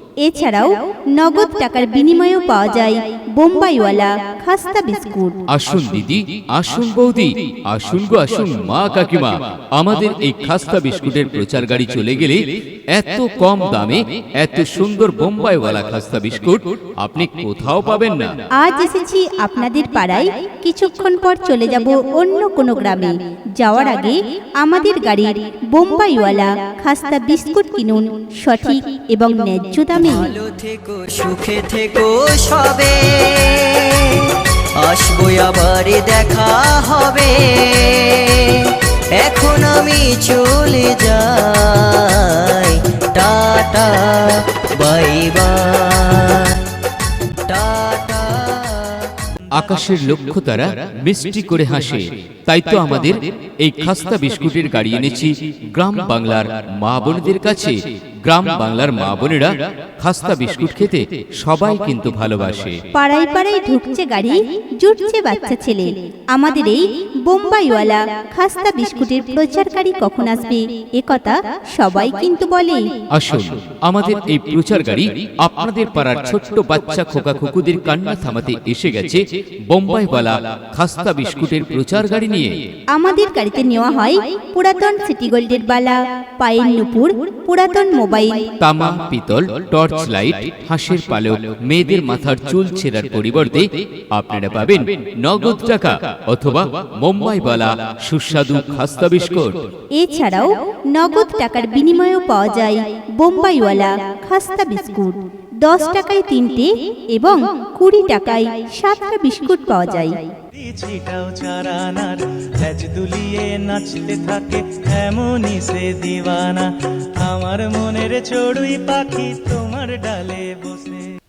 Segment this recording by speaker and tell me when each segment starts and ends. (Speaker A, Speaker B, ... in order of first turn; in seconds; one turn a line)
Speaker A: 0.2-5.5
Speaker B: 5.5-18.4
Speaker A: 18.5-30.3
Speaker C: 29.9-46.6
Speaker C: 47.5-49.1
Speaker B: 49.5-62.8
Speaker A: 62.9-73.0
Speaker B: 73.1-82.6
Speaker A: 82.9-88.5
Speaker B: 88.6-99.6
Speaker A: 99.9-110.3
Speaker D: 110.6-121.1